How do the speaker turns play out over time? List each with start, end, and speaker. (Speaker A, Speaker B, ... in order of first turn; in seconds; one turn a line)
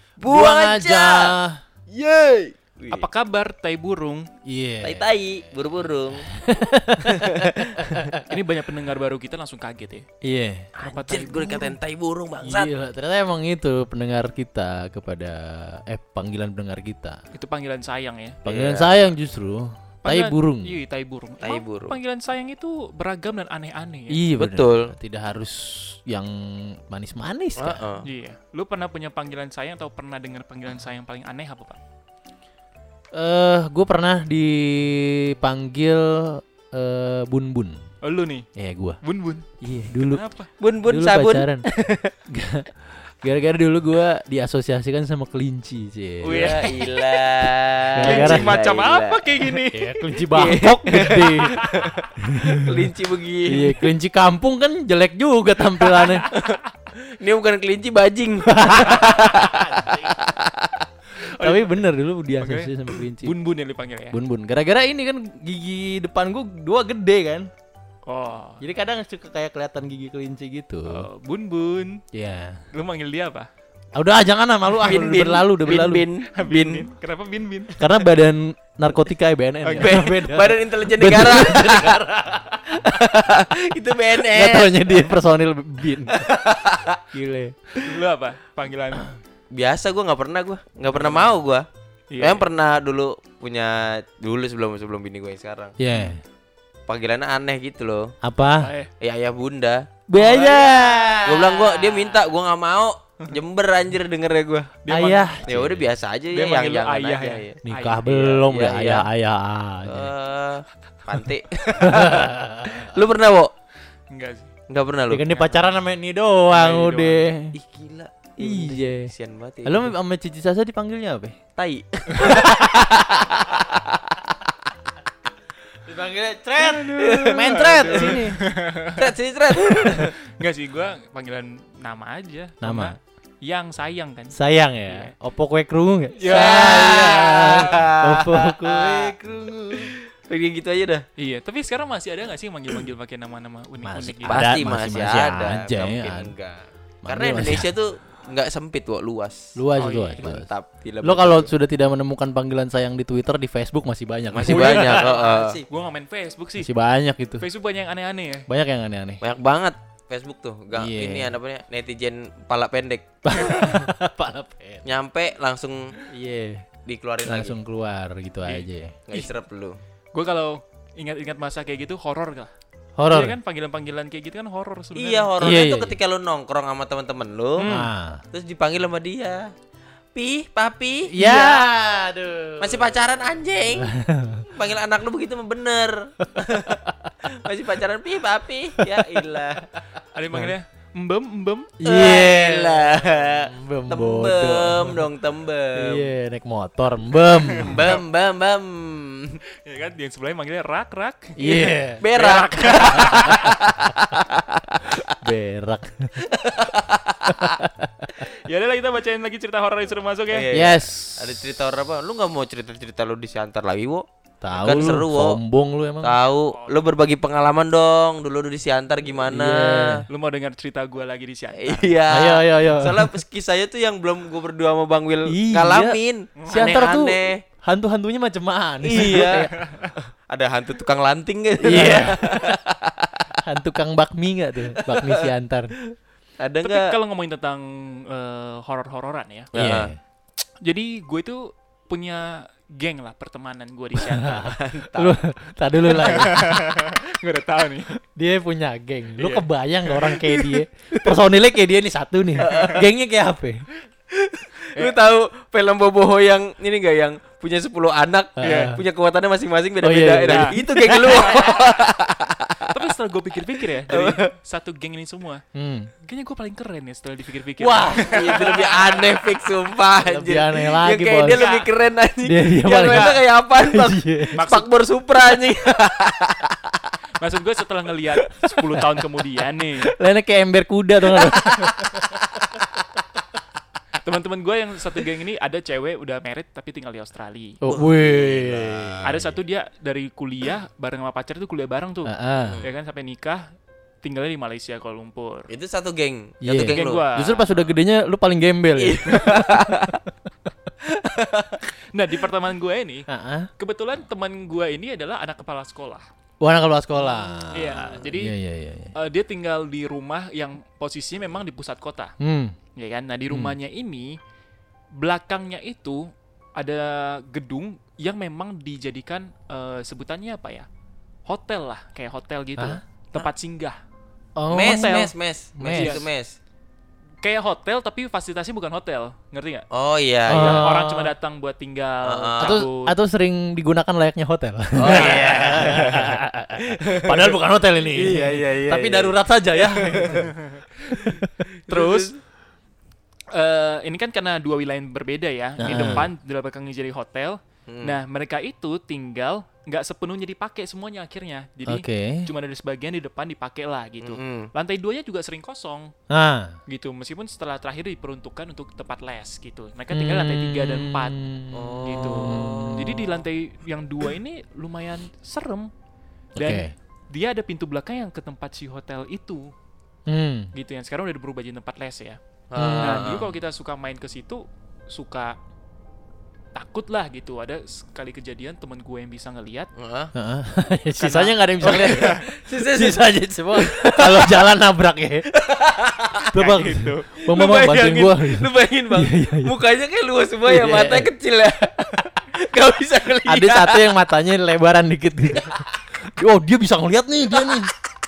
Speaker A: 0.2-1.4
Speaker B: 0.2-1.6
Speaker A: 1.9-3.1
Speaker C: 2.9-4.3
Speaker B: 4.5-5.1
Speaker A: 4.8-6.3
Speaker B: 6.3-8.2
Speaker A: 7.0-8.0
Speaker C: 8.2-10.1
Speaker B: 10.2-10.7
Speaker A: 10.8-12.7
Speaker C: 10.8-11.8
Speaker B: 12.4-17.2
Speaker C: 17.3-18.4
Speaker A: 18.4-19.0
Speaker B: 18.4-20.8
Speaker C: 20.0-24.2
Speaker A: 21.4-22.0
Speaker B: 24.1-27.8
Speaker A: 24.4-24.9
Speaker A: 27.6-28.1
Speaker C: 28.1-31.8
Speaker B: 33.1-37.8
Speaker C: 38.0-38.5
Speaker B: 38.6-39.0
Speaker C: 39.0-39.5
Speaker B: 39.6-40.2
Speaker C: 40.0-40.5
Speaker A: 40.6-42.1
Speaker B: 40.9-41.6
Speaker B: 42.3-46.7
Speaker C: 46.2-47.3
Speaker A: 46.2-49.5
Speaker B: 48.0-48.6
Speaker C: 48.0-51.9
Speaker B: 49.7-51.6
Speaker A: 50.3-53.9
Speaker B: 52.2-52.9
Speaker B: 53.5-56.3
Speaker C: 56.0-56.3
Speaker A: 56.4-60.9
Speaker B: 58.5-60.1
Speaker C: 61.3-61.9
Speaker B: 61.4-63.4
Speaker C: 62.4-64.2
Speaker B: 64.1-67.5
Speaker C: 68.1-68.6
Speaker B: 68.6-71.1
Speaker C: 70.9-72.0
Speaker B: 72.1-72.6
Speaker C: 72.7-73.5
Speaker B: 74.0-76.0
Speaker A: 74.8-76.9
Speaker C: 76.3-77.8
Speaker B: 77.8-83.1
Speaker C: 79.6-80.0
Speaker A: 79.8-82.0
Speaker A: 82.8-85.1
Speaker B: 84.3-86.2
Speaker A: 86.1-87.0
Speaker B: 87.1-87.6
Speaker C: 87.8-89.2
Speaker A: 89.5-91.7
Speaker C: 90.9-91.3
Speaker C: 92.1-92.5
Speaker A: 92.2-95.8
Speaker B: 95.8-96.2
Speaker A: 96.9-98.1
Speaker B: 98.2-98.7
Speaker C: 98.6-98.9
Speaker A: 99.0-100.7
Speaker B: 100.1-101.7
Speaker A: 101.2-104.8
Speaker C: 104.8-105.4
Speaker B: 104.9-105.9
Speaker A: 105.5-109.1
Speaker C: 106.3-108.0
Speaker B: 107.7-110.1
Speaker A: 109.9-113.5
Speaker B: 111.8-112.9
Speaker C: 114.1-114.5
Speaker A: 114.7-115.3
Speaker B: 115.1-117.6
Speaker C: 115.3-115.7
Speaker C: 116.5-117.3
Speaker A: 117.5-119.9
Speaker B: 118.4-119.1
Speaker B: 119.7-121.4
Speaker A: 121.6-124.3
Speaker B: 122.2-122.6
Speaker B: 125.8-128.4
Speaker C: 126.6-134.3
Speaker A: 127.0-128.2
Speaker A: 128.9-130.2
Speaker B: 132.6-133.0
Speaker B: 134.3-139.2
Speaker C: 134.9-135.1
Speaker C: 136.2-137.7
Speaker A: 136.2-141.0
Speaker C: 141.2-144.5
Speaker B: 143.8-146.3
Speaker A: 144.3-149.6
Speaker B: 147.0-147.7
Speaker B: 149.6-150.5
Speaker C: 149.8-150.3
Speaker A: 150.2-151.6
Speaker B: 151.0-155.1
Speaker A: 154.3-155.6
Speaker C: 154.4-156.7
Speaker B: 156.6-157.4
Speaker C: 157.4-158.5
Speaker B: 158.5-159.2
Speaker A: 159.2-163.8
Speaker B: 160.7-161.3
Speaker B: 163.2-164.9
Speaker A: 164.8-166.0
Speaker B: 166.1-166.7
Speaker A: 166.9-167.6
Speaker B: 167.3-169.3
Speaker A: 169.1-169.8
Speaker C: 170.1-172.5
Speaker B: 173.0-173.4
Speaker C: 173.1-175.3
Speaker A: 174.9-177.7
Speaker B: 175.4-176.0
Speaker C: 177.6-177.9
Speaker B: 177.6-178.2
Speaker A: 178.3-179.5
Speaker A: 180.2-181.7
Speaker B: 181.1-184.5
Speaker A: 182.6-183.9
Speaker A: 184.5-189.7
Speaker B: 186.4-186.9
Speaker B: 188.8-189.8
Speaker C: 190.1-191.7
Speaker B: 191.8-195.0
Speaker A: 191.8-196.1
Speaker B: 195.8-197.9
Speaker A: 197.6-199.4
Speaker C: 197.7-197.9
Speaker C: 199.5-201.4
Speaker B: 201.4-202.1
Speaker A: 201.4-205.1
Speaker C: 202.1-203.4
Speaker B: 203.1-203.3
Speaker B: 205.1-206.2
Speaker A: 206.3-207.6
Speaker B: 207.3-208.1
Speaker C: 208.2-210.5
Speaker A: 210.3-215.4
Speaker B: 210.5-211.5
Speaker B: 214.4-216.2
Speaker A: 216.0-220.1
Speaker C: 216.5-216.9
Speaker B: 219.3-220.1
Speaker C: 220.1-221.9
Speaker A: 221.6-227.4
Speaker B: 222.1-223.1
Speaker B: 225.3-226.0
Speaker C: 226.4-226.8
Speaker B: 226.5-229.5
Speaker A: 228.8-229.6
Speaker C: 229.5-229.9
Speaker A: 230.3-233.3
Speaker B: 231.6-232.6
Speaker B: 233.4-235.7
Speaker A: 234.8-235.2
Speaker A: 236.4-237.0
Speaker C: 236.6-239.5
Speaker A: 239.5-239.9
Speaker B: 239.5-240.0
Speaker C: 240.6-244.6
Speaker B: 244.0-246.6
Speaker A: 244.4-245.2
Speaker C: 245.9-248.0
Speaker B: 248.2-253.6
Speaker C: 249.2-250.5
Speaker A: 252.4-252.9
Speaker C: 252.4-252.7
Speaker A: 254.1-262.7
Speaker B: 258.4-258.8
Speaker C: 258.4-258.8
Speaker B: 259.8-261.4
Speaker C: 260.3-260.6
Speaker C: 261.1-261.6
Speaker C: 262.7-265.4
Speaker A: 263.9-264.3
Speaker B: 265.5-265.9
Speaker C: 266.0-268.7
Speaker B: 267.6-268.3
Speaker A: 268.0-276.8
Speaker B: 270.0-271.5
Speaker C: 271.3-271.7
Speaker B: 272.2-274.4
Speaker C: 274.4-274.7
Speaker C: 277.2-279.9
Speaker B: 279.8-282.1
Speaker A: 281.2-281.7
Speaker C: 284.0-287.6
Speaker B: 287.6-289.1
Speaker A: 287.6-289.2
Speaker C: 289.0-293.5
Speaker B: 292.1-292.6
Speaker C: 294.0-295.5
Speaker A: 295.5-297.1
Speaker B: 296.4-300.1
Speaker C: 296.7-297.5
Speaker A: 298.8-300.0
Speaker A: 300.9-301.7
Speaker C: 301.9-303.1
Speaker B: 303.1-303.5
Speaker C: 303.6-306.1
Speaker B: 306.4-308.9
Speaker C: 307.5-308.4
Speaker C: 308.9-312.1
Speaker B: 312.2-312.6
Speaker C: 312.8-314.2
Speaker B: 313.3-313.6
Speaker C: 314.9-320.7
Speaker C: 321.3-323.8
Speaker B: 324.4-326.1
Speaker A: 324.5-326.4
Speaker C: 325.7-326.1
Speaker C: 327.2-329.7
Speaker A: 329.7-330.7
Speaker B: 330.3-331.1
Speaker C: 330.4-332.9
Speaker A: 332.1-332.6
Speaker B: 332.4-340.3
Speaker A: 334.8-336.2
Speaker A: 336.8-337.4
Speaker A: 337.9-340.3
Speaker C: 340.1-340.6
Speaker A: 341.0-342.2
Speaker B: 341.1-341.3
Speaker C: 341.7-342.1
Speaker C: 343.3-355.9
Speaker B: 345.6-346.1
Speaker A: 345.7-346.0
Speaker A: 347.7-348.0
Speaker B: 351.7-352.3
Speaker A: 354.0-354.5
Speaker B: 356.1-356.6
Speaker C: 356.7-361.2
Speaker B: 359.9-363.0
Speaker A: 361.5-362.9
Speaker C: 361.9-365.7
Speaker B: 366.4-366.7
Speaker C: 366.4-369.5
Speaker B: 370.1-370.5
Speaker C: 370.5-372.2
Speaker A: 372.5-373.3
Speaker B: 372.6-373.2
Speaker C: 372.7-375.4
Speaker C: 376.6-379.7
Speaker A: 379.8-380.1
Speaker B: 380.1-385.3
Speaker C: 381.0-382.2
Speaker A: 381.6-384.5
Speaker A: 385.3-386.4
Speaker B: 386.3-389.5
Speaker C: 386.4-387.1
Speaker A: 387.2-393.9
Speaker B: 390.5-391.1
Speaker B: 393.2-395.6
Speaker B: 396.1-397.7